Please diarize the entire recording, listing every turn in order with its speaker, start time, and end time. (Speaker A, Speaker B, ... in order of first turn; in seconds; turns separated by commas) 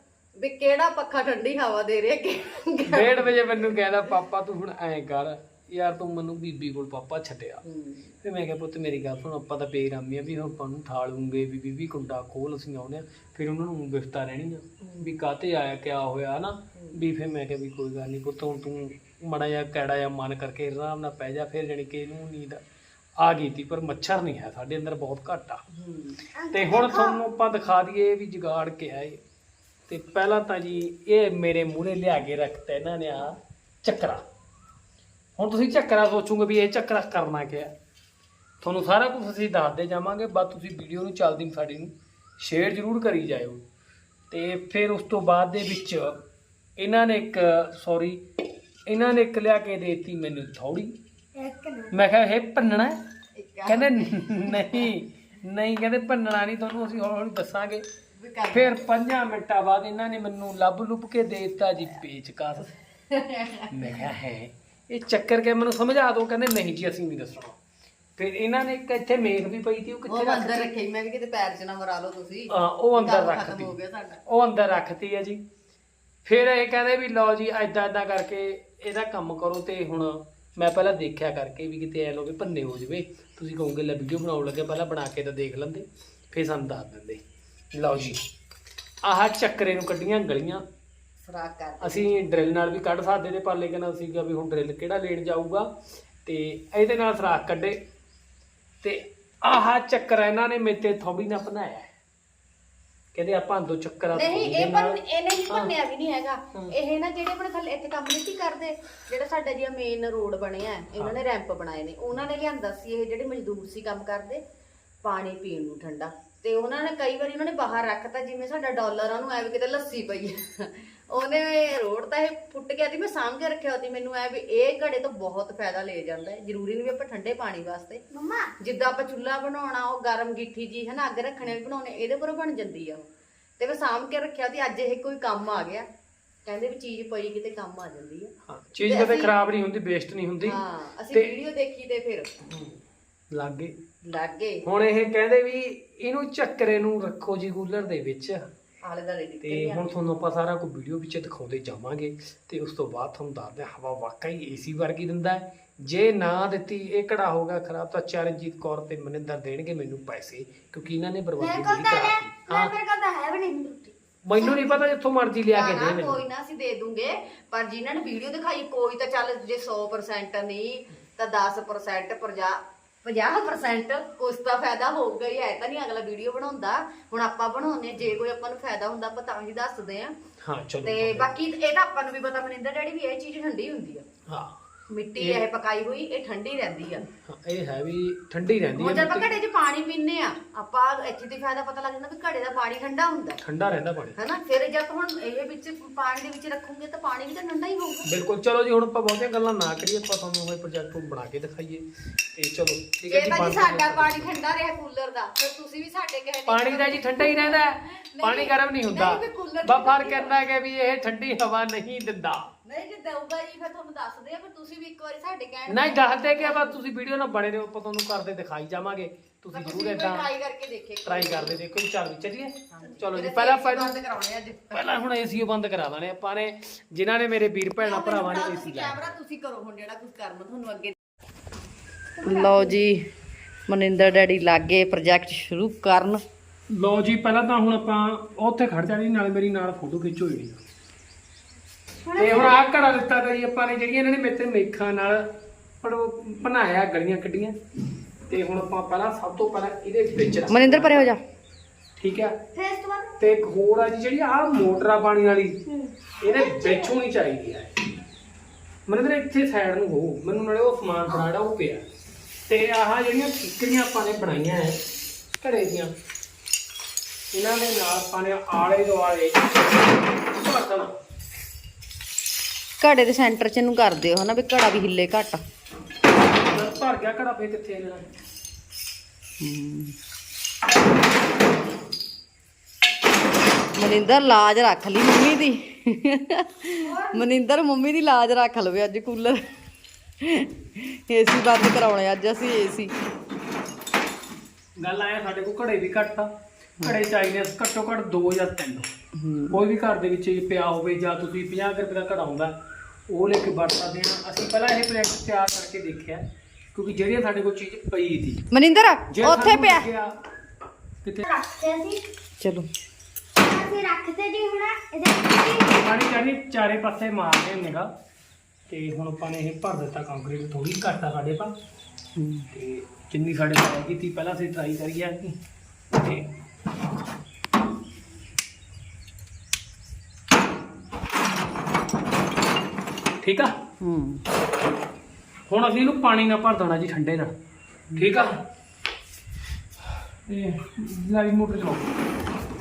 Speaker A: 0.4-3.7, Speaker B: 2.9-7.6, Speaker A: 7.6-8.1, Speaker B: 8.2-22.6, Speaker A: 14.8-15.2, Speaker B: 23.2-25.6, Speaker A: 25.7-26.2, Speaker C: 26.3-27.2, Speaker B: 26.5-29.2, Speaker B: 29.9-34.2, Speaker B: 35.4-37.7, Speaker B: 38.6-43.6, Speaker B: 44.3-46.2, Speaker B: 46.8-48.2, Speaker B: 48.9-50.9, Speaker C: 51.4-51.9, Speaker B: 51.9-53.0, Speaker A: 53.4-54.9, Speaker B: 53.7-57.8, Speaker A: 58.2-58.8, Speaker B: 58.5-62.7, Speaker A: 63.1-64.0, Speaker B: 63.7-67.6, Speaker B: 68.2-70.7, Speaker A: 70.1-74.2, Speaker B: 72.5-73.7, Speaker B: 74.2-75.4, Speaker B: 76.2-87.2, Speaker B: 87.7-88.2, Speaker B: 89.0-90.6, Speaker A: 91.2-92.2, Speaker B: 91.8-95.7, Speaker B: 96.2-97.8, Speaker B: 98.8-101.9, Speaker B: 103.1-105.7, Speaker A: 104.1-114.4, Speaker A: 115.0-128.0, Speaker C: 128.1-128.5, Speaker A: 128.6-133.1, Speaker A: 133.6-135.8, Speaker A: 136.4-138.3, Speaker B: 138.5-140.6, Speaker A: 138.8-139.3, Speaker A: 140.4-142.3, Speaker B: 142.5-142.7, Speaker B: 143.3-143.8, Speaker A: 144.0-144.6, Speaker B: 144.6-148.4, Speaker A: 148.8-149.9, Speaker B: 149.4-162.7, Speaker C: 161.4-163.9, Speaker B: 164.2-166.2, Speaker A: 164.3-164.8, Speaker A: 165.5-180.1, Speaker B: 180.4-181.3, Speaker A: 180.8-184.1, Speaker B: 184.3-184.6, Speaker A: 184.9-187.0, Speaker B: 185.2-185.4, Speaker B: 187.2-189.3, Speaker A: 188.7-193.4, Speaker B: 193.4-194.2, Speaker A: 194.2-198.1, Speaker B: 198.1-204.3, Speaker A: 203.1-210.4, Speaker B: 206.5-212.5, Speaker A: 212.6-216.8, Speaker B: 215.7-220.3, Speaker A: 219.5-221.6, Speaker B: 221.0-224.0, Speaker A: 222.7-225.1, Speaker B: 224.7-229.1, Speaker A: 227.8-230.9, Speaker C: 232.2-232.8, Speaker A: 232.2-233.0, Speaker A: 233.7-236.2, Speaker B: 236.7-240.6, Speaker C: 242.1-242.6, Speaker B: 242.1-245.3, Speaker B: 245.8-247.6, Speaker B: 248.3-251.1, Speaker A: 250.5-251.2, Speaker B: 252.0-252.4, Speaker C: 252.5-253.2, Speaker B: 253.2-255.6, Speaker C: 255.7-256.9, Speaker B: 256.2-257.7, Speaker B: 258.9-261.8, Speaker B: 262.5-264.8, Speaker B: 265.4-265.9, Speaker B: 267.3-271.0, Speaker A: 272.8-275.4, Speaker B: 276.5-278.1, Speaker A: 279.4-279.9, Speaker A: 283.8-289.4, Speaker C: 286.8-287.2, Speaker A: 290.2-292.9, Speaker B: 294.8-298.9, Speaker A: 299.1-299.6, Speaker B: 299.5-302.6, Speaker B: 303.1-306.2, Speaker B: 306.7-308.4, Speaker A: 308.5-309.9, Speaker B: 309.1-310.1, Speaker C: 311.2-312.0, Speaker A: 312.4-312.7, Speaker C: 313.4-315.8, Speaker B: 315.6-317.9, Speaker B: 318.7-321.5, Speaker A: 322.1-322.5, Speaker B: 322.5-325.4, Speaker B: 325.9-326.3, Speaker B: 333.2-333.6, Speaker A: 333.8-334.2, Speaker B: 335.5-337.3, Speaker B: 337.9-338.4, Speaker B: 340.3-341.9